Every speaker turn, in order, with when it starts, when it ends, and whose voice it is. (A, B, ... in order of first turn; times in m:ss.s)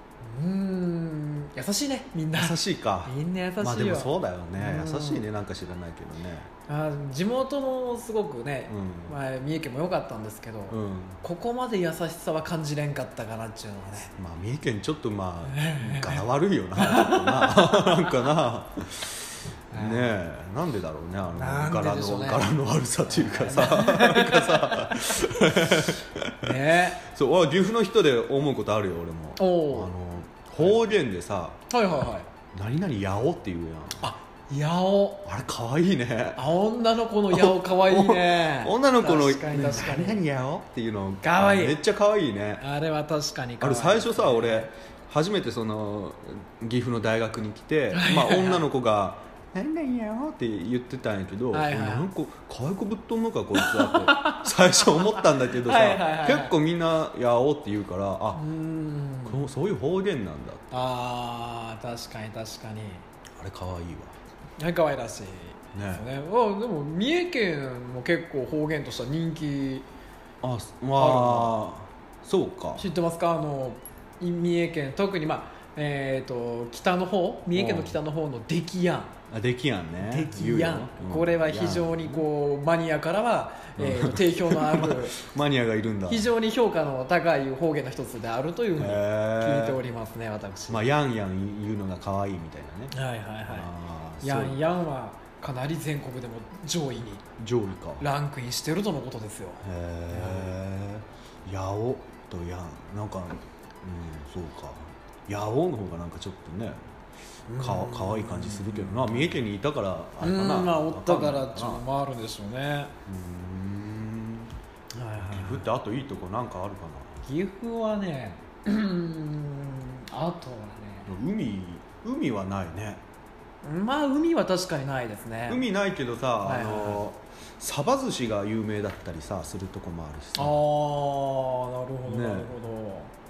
0:00.2-0:05.3 A
0:02.3-0:06.5 B
0:06.7-0:14.1 A
0:08.7-0:09.2 B
0:10.7-0:11.2 B
0:14.2-0:19.2 B
0:15.5-0:16.2 A
0:16.8-0:18.3 A
0:19.7-0:20.2 A
0:19.7-0:31.6 B
0:21.3-0:22.5 A
0:23.1-0:25.1 A
0:26.4-0:27.0 A
0:29.4-0:29.9 A
0:31.7-0:32.3 A
0:32.5-0:34.0 B
0:34.0-0:35.2 A
0:35.2-0:36.4 B
0:36.4-0:40.2 A
0:37.3-0:42.6 B
0:41.2-0:41.8 A
0:42.6-0:44.7 A
0:43.6-0:58.4 B
0:47.9-0:48.6 A
0:51.5-0:52.1 A
0:53.6-0:56.5 A
0:58.3-0:59.4 A
0:59.2-1:00.7 B
1:00.7-1:03.0 A
1:03.4-1:04.2 B
1:04.6-1:09.9 A
1:05.7-1:06.0 B
1:10.4-1:12.8 B
1:11.0-1:11.6 A
1:12.7-1:19.1 A
1:17.5-1:18.0 B
1:19.3-1:22.3 B
1:20.0-1:25.2 A
1:23.8-1:26.3 B
1:26.1-1:30.8 A
1:28.8-1:29.8 B
1:30.7-1:32.9 B
1:32.9-1:33.7 A
1:33.4-1:34.6 B
1:34.2-1:37.2 A
1:37.4-1:38.1 B
1:38.0-1:40.5 A
1:39.6-1:46.8 B
1:47.5-1:49.3 A
1:47.6-1:51.8 B
1:50.2-1:52.9 A
1:53.1-1:54.5 B
1:54.9-1:55.7 A
1:55.3-1:57.2 B
1:57.2-2:01.1 A
2:01.1-2:03.0 B
2:03.6-2:05.6 A
2:05.5-2:10.6 B
2:06.4-2:07.0 A
2:10.4-2:13.1 A
2:12.0-2:12.5 B